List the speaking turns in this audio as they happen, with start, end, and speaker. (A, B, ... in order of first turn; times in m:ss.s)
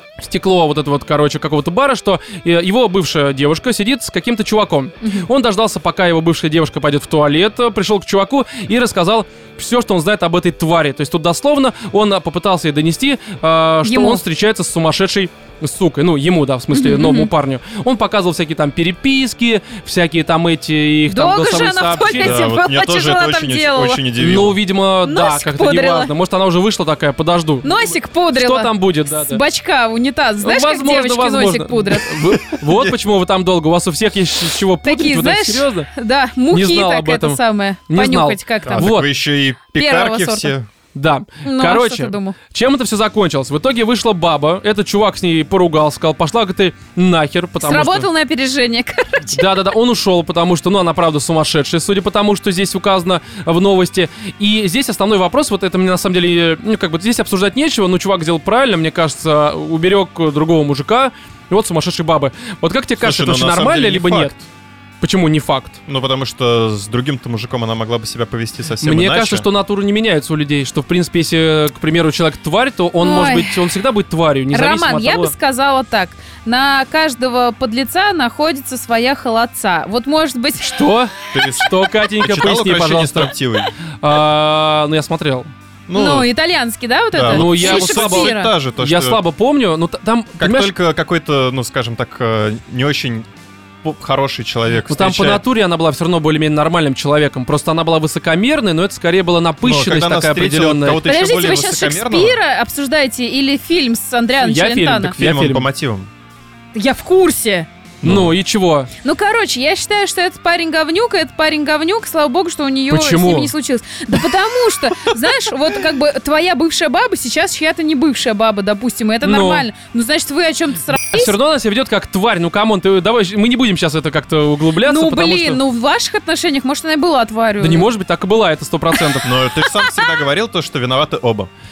0:00.2-0:22.4 A
0:05.0-0:05.3 B
0:13.8-0:14.2 B
0:16.7-0:17.3 B
0:21.1-0:24.0 B
0:22.2-0:24.6 C
0:24.2-0:29.4 A
0:25.0-0:26.1 B
0:27.6-0:32.4 B
0:30.4-0:35.9 A
0:32.5-0:33.0 C
0:34.8-0:38.9 B
0:36.5-0:39.1 A
0:38.6-0:40.7 C
0:39.7-0:40.5 B
0:40.9-0:48.1 A
0:41.4-0:42.4 B
0:47.6-0:49.6 B
0:49.3-1:04.3 A
1:03.0-1:04.4 C
1:05.0-1:05.8 A
1:05.9-1:09.4 C
1:08.8-1:15.3 A
1:13.0-1:13.6 B
1:14.5-1:20.8 B
1:20.6-1:23.3 A
1:21.3-1:23.7 C
1:24.0-1:25.5 A
1:25.9-1:26.3 C
1:25.9-1:28.5 B
1:27.1-1:29.2 C
1:27.3-1:30.7 A
1:30.4-1:33.3 C
1:33.8-1:35.4 C
1:34.9-1:41.0 A
1:39.6-1:42.4 C
1:41.0-1:45.1 B
1:44.4-1:45.7 A
1:45.2-1:46.1 C
1:46.7-1:47.7 B
1:48.0-1:48.3 C
1:48.0-1:48.9 A
1:49.0-2:01.4 B
1:52.9-1:53.5 A
1:59.2-1:59.7 A
2:00.9-2:05.6 A
2:04.8-2:07.9 B
2:07.6-2:09.3 A
2:09.2-2:11.5 C
2:09.6-2:10.2 B